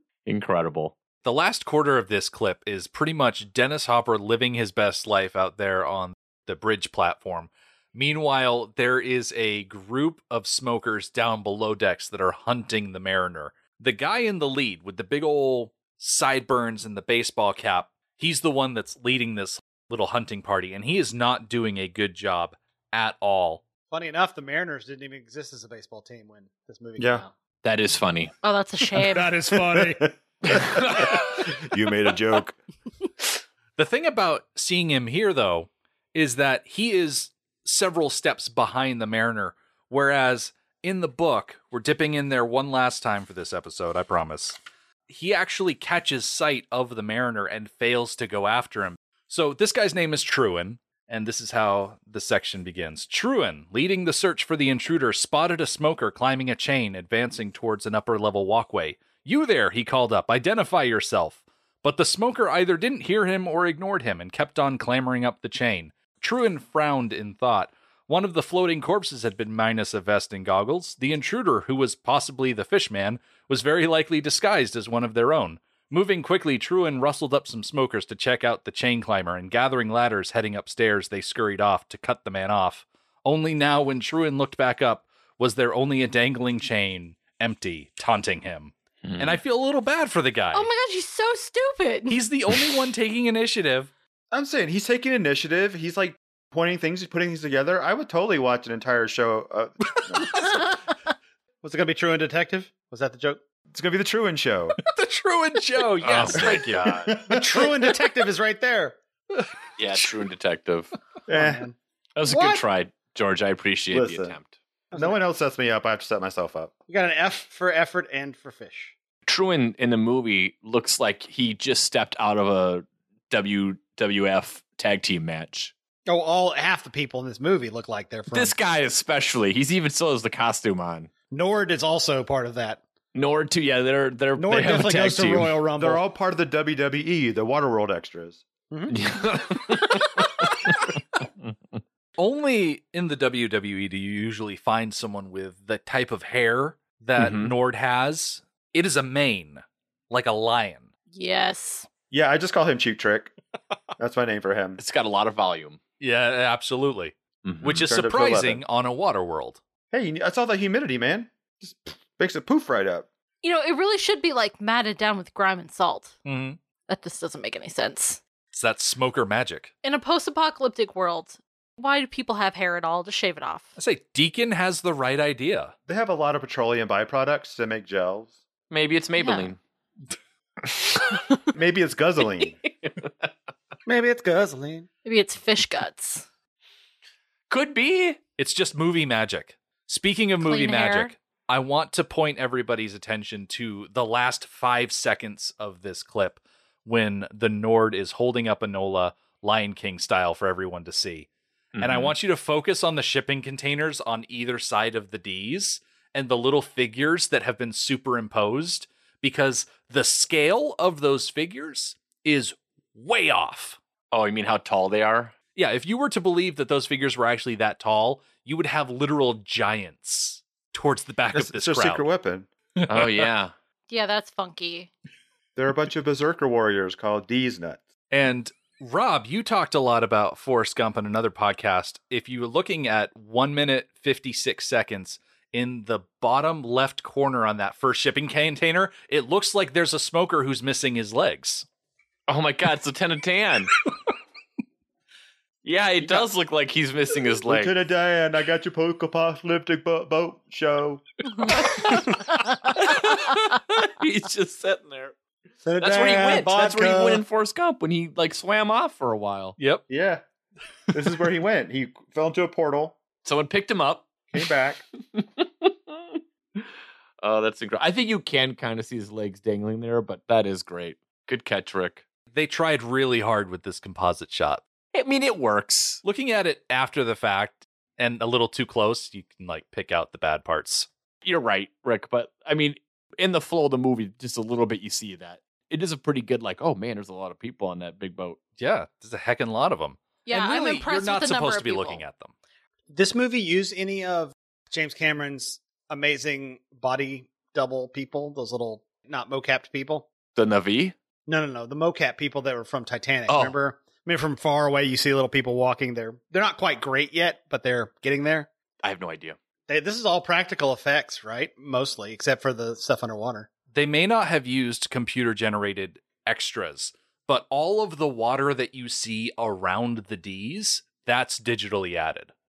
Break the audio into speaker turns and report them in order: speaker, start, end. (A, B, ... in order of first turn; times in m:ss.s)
0:00.2-0:01.0 A
0:01.2-0:23.6 B
0:23.9-0:27.3 C
0:27.0-0:27.3 D
0:27.6-0:28.3 A
0:28.4-0:29.4 E
0:29.0-0:30.1 C
0:29.7-0:32.6 D
0:30.5-0:31.5 A
0:33.8-1:30.7 B
1:29.0-1:29.4 A
1:30.5-1:32.2 E
1:32.1-1:33.9 B
1:34.3-1:40.6 D
1:41.6-1:43.4 C
1:43.7-1:44.8 D
1:44.8-1:47.1 B
1:46.0-1:47.1 A
1:46.8-1:47.7 D
1:47.2-1:49.0 C
1:49.8-1:50.9 A
1:51.3-1:51.6 D
1:51.3-1:52.6 C
1:52.2-1:54.5 A
1:53.9-1:54.4 D
1:54.9-1:55.2 C
1:54.9-1:56.7 D
1:56.9-1:58.9 C
1:59.2-2:05.7 A
2:06.1-2:08.5 C
2:08.3-2:11.1 A
2:11.3-2:12.8 C
2:13.1-2:15.6 A
2:14.4-2:16.0 C
2:15.8-2:18.4 D
2:18.7-2:19.0 C
2:18.9-2:21.2 A
2:22.2-2:30.9 B
2:27.2-2:27.5 A
2:31.1-2:31.9 E
2:32.1-2:33.3 D
2:34.0-2:34.8 D
2:34.8-2:35.8 A
2:36.0-2:39.6 B
2:37.4-2:37.8 A
2:37.6-2:38.6 D
2:39.9-2:43.1 D
2:43.4-2:46.2 E
2:46.2-2:46.6 B
2:46.9-2:48.2 E
2:48.5-2:49.7 B
2:49.8-2:53.7 E
2:53.8-2:55.7 B
2:55.9-2:58.4 D
2:58.7-2:59.6 A
2:59.2-2:59.5 E
3:01.5-3:02.6 D
3:02.6-3:03.3 A
3:03.8-3:04.9 C
3:05.0-3:06.2 E
3:07.5-3:08.2 A
3:08.4-3:33.8 B
3:10.4-3:11.1 E
3:21.7-3:22.1 A
3:34.1-3:35.3 A
3:35.5-3:42.0 B
3:41.3-3:42.5 D
3:42.8-3:43.3 B
3:42.9-3:43.5 A
3:43.9-3:44.9 E
3:45.6-3:47.8 D
3:48.1-4:01.6 B
4:02.3-4:03.7 A
4:05.6-4:07.7 A
4:07.5-4:11.0 D
4:11.4-4:15.1 A
4:15.6-4:17.2 C
4:15.8-4:19.6 A
4:19.6-4:19.8 B
4:19.9-4:20.2 D
4:20.9-4:23.0 D
4:23.2-4:24.1 A
4:24.3-4:24.8 D
4:25.1-4:26.7 A
4:27.2-4:32.0 A
4:32.3-4:34.6 B
4:34.9-4:36.0 A
4:36.0-4:40.9 B
4:41.2-4:48.4 A
4:48.6-4:52.3 B
4:50.2-4:52.0 E
4:52.9-5:00.1 C
5:00.4-5:00.9 A
5:01.3-5:08.5 C
5:03.3-5:03.5 A
5:08.8-5:09.4 A
5:09.7-5:13.5 C
5:13.7-5:22.3 B